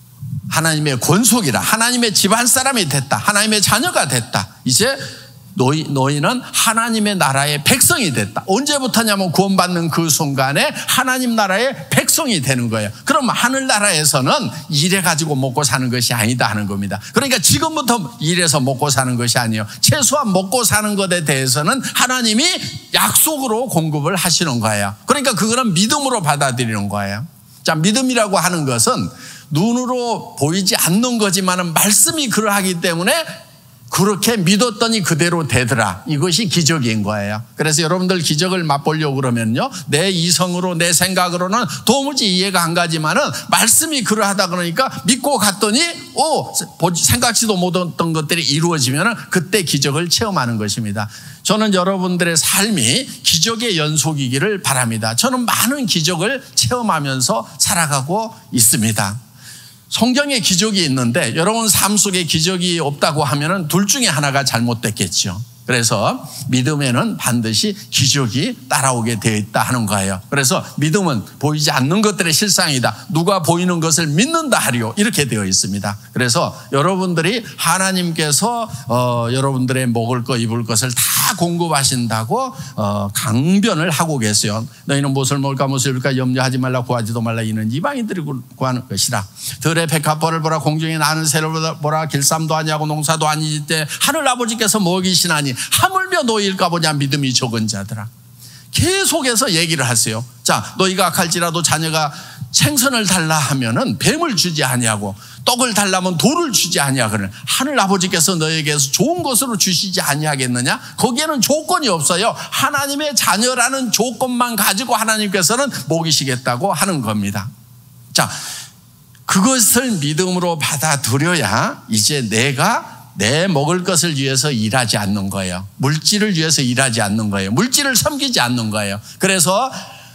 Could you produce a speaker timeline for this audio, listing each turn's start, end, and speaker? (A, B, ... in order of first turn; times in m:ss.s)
0:00.5-0:05.0 A
0:05.5-0:59.2 A
0:59.9-1:38.1 A
1:38.7-1:57.5 A
1:58.1-1:58.4 A
1:59.3-2:09.8 A